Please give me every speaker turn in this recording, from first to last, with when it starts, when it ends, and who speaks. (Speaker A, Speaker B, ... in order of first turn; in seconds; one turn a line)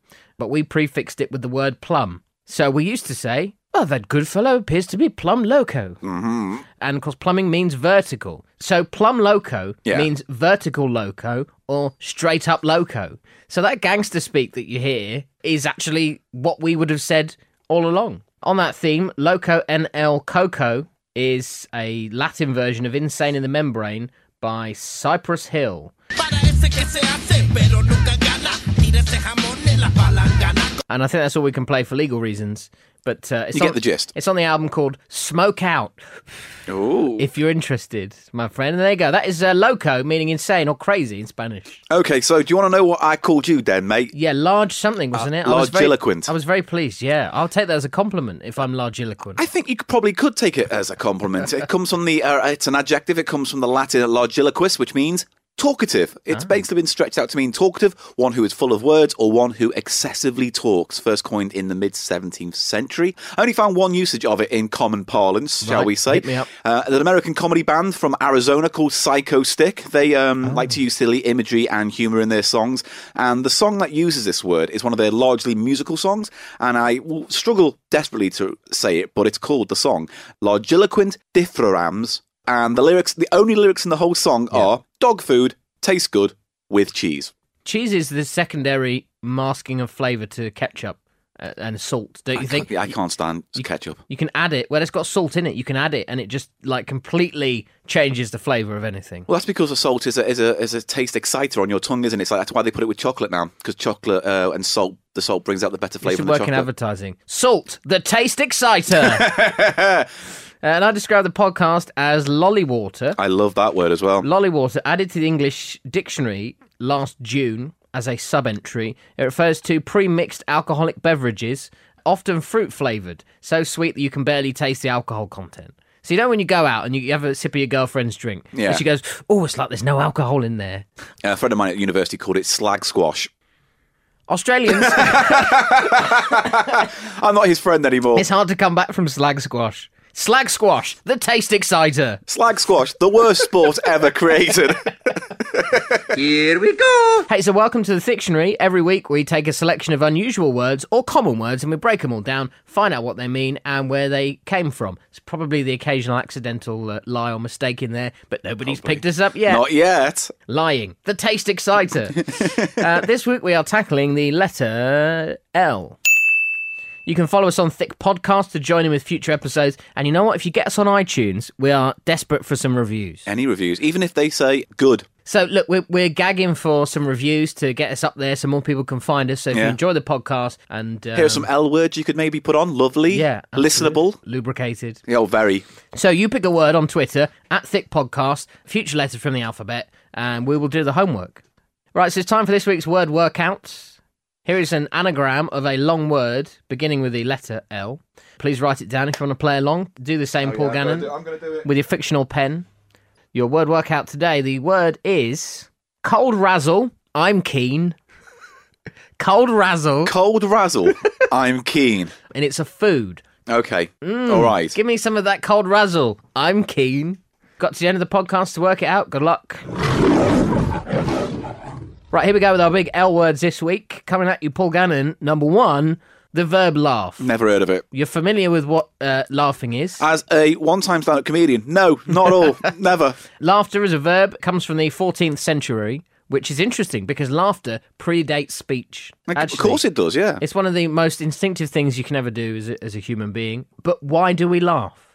Speaker A: 0.4-6.0
Speaker B: 6.0-6.7
Speaker A: 6.8-25.9
Speaker C: 27.9-30.5
Speaker A: 30.9-36.0
Speaker B: 33.5-34.1
Speaker B: 36.7-37.3
Speaker A: 37.2-41.8
Speaker B: 41.9-44.1
Speaker A: 44.1-49.5
Speaker B: 45.1-46.3
Speaker B: 49.4-87.3
Speaker A: 56.3-56.6
Speaker A: 65.6-66.5
Speaker A: 70.5-70.8
Speaker A: 87.7-92.9
Speaker B: 92.4-94.0
Speaker A: 93.6-99.3
Speaker B: 99.3-106.7
Speaker A: 106.0-109.3
Speaker B: 109.0-110.1
Speaker A: 110.6-113.2
Speaker B: 113.2-114.3
Speaker A: 114.2-130.8
Speaker B: 128.5-128.8
Speaker B: 131.2-133.3
Speaker A: 134.3-136.1
Speaker B: 134.7-138.3
Speaker A: 138.2-142.2
Speaker B: 142.3-146.1
Speaker C: 146.2-147.2
Speaker A: 147.3-159.7
Speaker B: 158.7-160.3
Speaker A: 160.5-166.0
Speaker B: 162.2-162.9
Speaker A: 167.1-173.3
Speaker B: 173.3-175.1
Speaker A: 175.3-181.5
Speaker B: 179.5-179.8
Speaker B: 181.2-184.2
Speaker A: 183.1-185.0
Speaker B: 185.1-185.7
Speaker A: 185.9-191.4
Speaker A: 191.9-193.9
Speaker A: 194.5-201.1
Speaker B: 200.4-201.7
Speaker A: 201.6-202.7
Speaker A: 203.3-208.0
Speaker A: 209.2-210.1
Speaker B: 210.1-212.1
Speaker A: 212.3-213.2
Speaker B: 213.5-214.8
Speaker A: 214.0-219.7
Speaker A: 222.1-227.3
Speaker B: 227.2-227.8
Speaker A: 227.9-230.0
Speaker B: 230.0-233.2
Speaker A: 233.4-239.8
Speaker B: 239.3-240.4
Speaker A: 240.4-245.0